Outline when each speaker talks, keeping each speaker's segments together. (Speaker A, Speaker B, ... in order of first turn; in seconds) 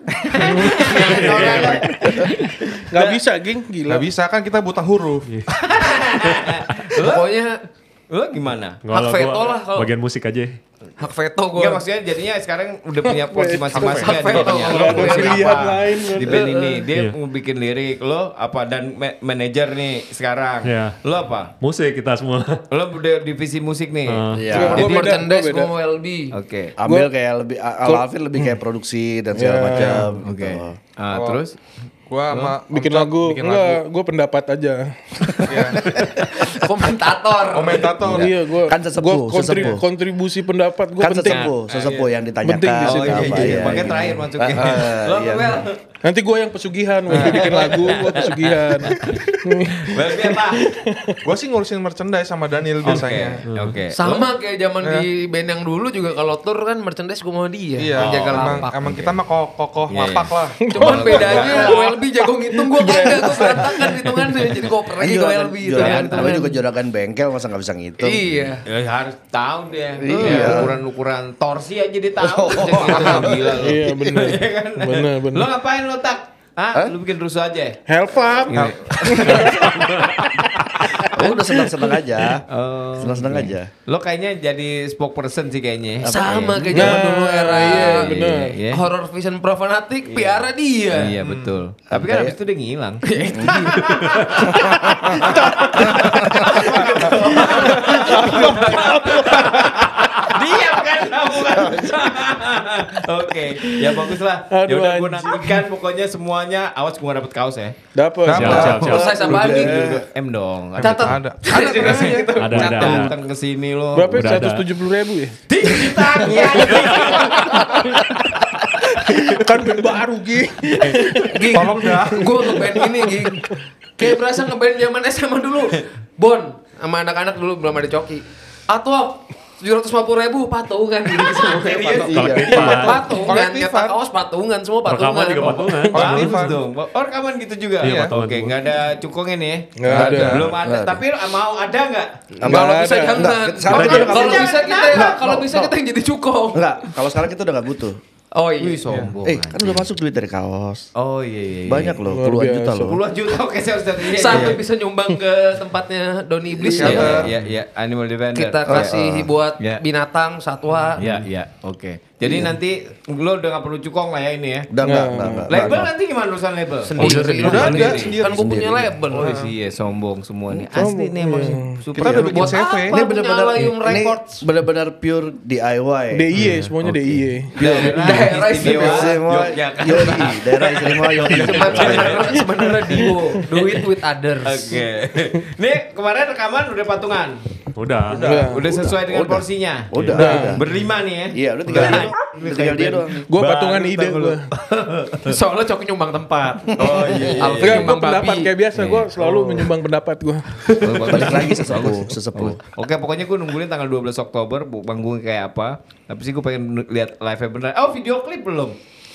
Speaker A: 0.2-3.2, 5.5-7.3, 8.1-8.8, 11.6-21.5, 22.7-25.1, 26.3-26.8, 30.2-31.6, 32.3-32.6, 41.3-42.1, 42.8-45.8, 47.1-50.7, 52.8-54.1, 58.0-59.2, 59.9-62.0, 65.7-66.4, 68.3-77.8, 78.5-81.1, 82.5-87.0, 87.5-88.8, 90.1-107.8, 109.0-114.2, 115.5-117.8, 120.8-121.2, 131.6-132.9, 135.9-142.1, 143.7-145.1, 148.6-149.9, 151.0-152.0, 152.8-154.6, 156.8-158.9, 161.0-164.7, 165.5-168.2, 169.1-172.6, 177.6-182.3, 184.4-187.4, 188.1-195.3, 196.8-198.0, 198.8-199.6, 200.8-208.8
Speaker B: 0.4-2.3, 2.9-4.1, 13.1-16.5, 24.5-25.7, 26.8-27.1, 29.3-30.2, 32.7-35.4, 38.1-41.5, 42.4-43.9, 46.0-51.2, 60.6-61.8, 62.5-63.8, 73.6-75.5, 77.9-82.0, 86.7-88.6, 97.3-100.0, 103.6-105.6, 108.0-108.8, 113.9-115.4, 116.2-118.1, 118.9-123.6, 135.4-136.5, 139.8-140.5, 142.4-143.4, 152.1-152.8, 164.8-165.7, 170.7-171.9, 176.1-177.6, 182.3-183.4, 188.2-188.6, 190.1-190.6, 193.3-194.5, 197.6-201.4
Speaker C: 0.9-2.0, 5.3-5.5, 6.2-7.0, 8.9-10.6, 20.6-21.0, 21.6-22.6, 24.1-24.6, 52.9-53.8, 79.4-79.8, 108.3-109.1, 112.4-113.1, 114.1-114.7, 132.1-133.2, 134.9-136.4, 137.8-138.6, 167.0-168.0, 176.4-176.7, 181.8-182.2, 187.8-188.4
Speaker D: 3.9-5.3, 13.7-14.8, 29.8-30.1, 31.1-31.4, 32.1-33.8, 35.4-35.9, 37.5-38.3, 51.2-53.4, 57.8-61.4, 91.2-91.5, 108.3-109.0, 110.8-112.3, 121.5-122.3, 131.8-134.0, 135.9-136.6, 137.8-138.1, 139.9-140.5, 156.6-157.3, 167.0-168.5, 169.1-169.5, 171.9-173.0
Speaker E: 7.0-7.6, 8.9-9.9, 11.0-11.8, 13.8-15.7, 16.2-16.8, 24.7-26.3, 36.3-37.9, 53.9-58.7, 60.7-66.6, 68.0-68.6, 72.7-73.4, 86.0-88.1, 88.7-91.2, 93.0-96.8, 97.3-98.5, 99.1-99.6, 108.7-109.9, 110.8-113.1, 115.8-118.0, 121.2-135.7, 142.4-146.9, 148.3-148.8, 154.1-157.2, 158.3-161.0, 166.8-169.4, 172.0-174.4, 177.7-179.2, 179.9-180.3, 181.3-184.8, 195.3-198.5
Speaker F: 24.4-24.9, 26.8-30.8, 35.4-36.3, 38.0-39.9, 41.0-45.6, 64.9-68.3, 70.0-70.8, 72.2-74.2, 81.0-82.4, 83.0-83.7, 86.0-86.6, 91.9-92.3, 93.3-93.7, 95.1-96.8, 101.6-102.1, 108.4-110.1, 132.1-132.6, 140.4-141.0, 142.4-145.7, 146.5-148.0, 149.2-150.9, 151.7-153.0, 156.8-157.3, 158.7-159.3, 162.2-162.5, 164.7-165.9, 168.3-168.9, 172.9-176.3, 177.6-182.2, 188.6-190.6, 191.3-193.3, 201.0-202.6